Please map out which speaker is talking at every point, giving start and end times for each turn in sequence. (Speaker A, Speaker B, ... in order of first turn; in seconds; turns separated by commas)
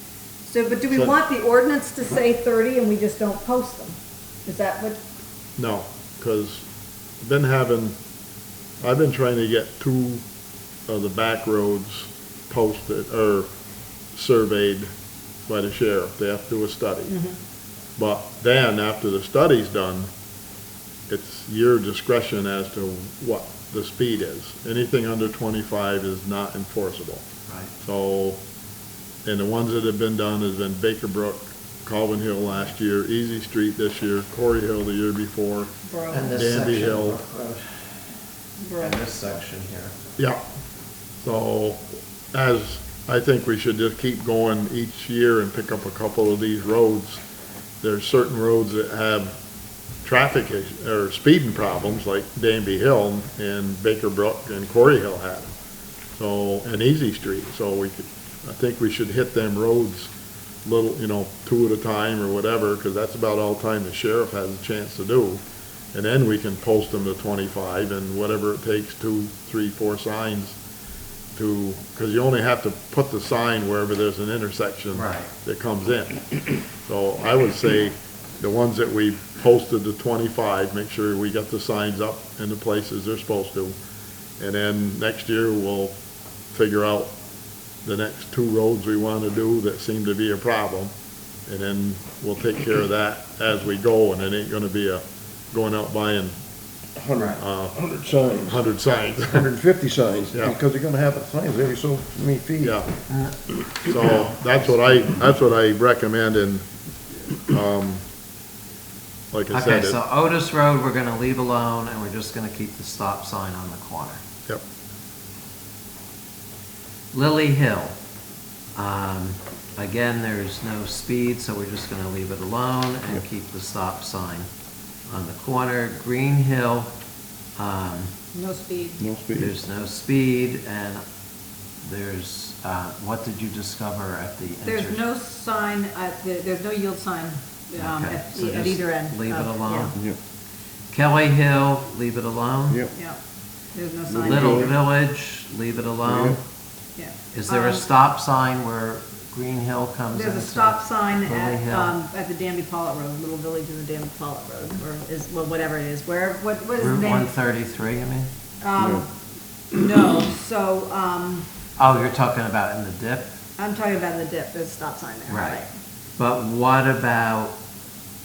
Speaker A: 0.4-5.0, Speaker B: 0.9-1.1, Speaker B: 5.6-6.7, Speaker B: 7.2-7.9, Speaker B: 8.8-10.2, Speaker B: 10.9-13.5, Speaker B: 14.1-14.9, Speaker B: 15.5-17.2, Speaker A: 17.1-17.4, Speaker B: 18.0-20.1, Speaker B: 21.1-27.2, Speaker B: 27.8-28.4, Speaker B: 29.2-35.7, Speaker A: 35.8-36.3, Speaker C: 36.1-37.8, Speaker B: 36.3-37.2, Speaker A: 38.6-39.0, Speaker C: 38.8-39.9, Speaker B: 41.2-47.2, Speaker B: 47.8-49.3, Speaker B: 50.0-55.5, Speaker B: 56.2-60.1, Speaker B: 60.6-65.4, Speaker B: 65.9-70.6, Speaker B: 71.3-83.8, Speaker C: 74.9-75.3, Speaker B: 84.4-85.9, Speaker B: 86.5-87.1, Speaker B: 87.8-90.9, Speaker B: 91.5-96.3, Speaker D: 97.0-98.7, Speaker C: 97.2-97.4, Speaker B: 97.4-97.8, Speaker B: 98.5-99.5, Speaker D: 99.2-102.8, Speaker B: 100.3-100.6, Speaker B: 102.6-102.9, Speaker C: 103.1-103.4, Speaker B: 103.8-106.6, Speaker B: 107.5-108.0, Speaker B: 109.3-110.0, Speaker C: 109.5-114.2, Speaker C: 117.1-118.0, Speaker C: 118.7-124.5, Speaker C: 125.1-126.9, Speaker C: 127.6-128.1, Speaker A: 128.3-129.1, Speaker D: 129.0-129.5, Speaker C: 129.4-131.0, Speaker C: 131.8-135.0, Speaker A: 134.6-139.9, Speaker C: 137.8-139.9, Speaker C: 140.9-142.8, Speaker A: 143.7-144.7, Speaker D: 144.1-144.7, Speaker C: 144.2-146.4, Speaker D: 146.0-146.4, Speaker A: 147.0-147.8, Speaker C: 147.3-151.9, Speaker A: 150.1-157.3, Speaker C: 156.8-158.3, Speaker A: 158.6-159.1, Speaker D: 158.8-159.0, Speaker A: 159.7-161.4, Speaker C: 161.8-163.3, Speaker A: 163.6-165.7, Speaker C: 165.3-165.6, Speaker C: 166.2-167.5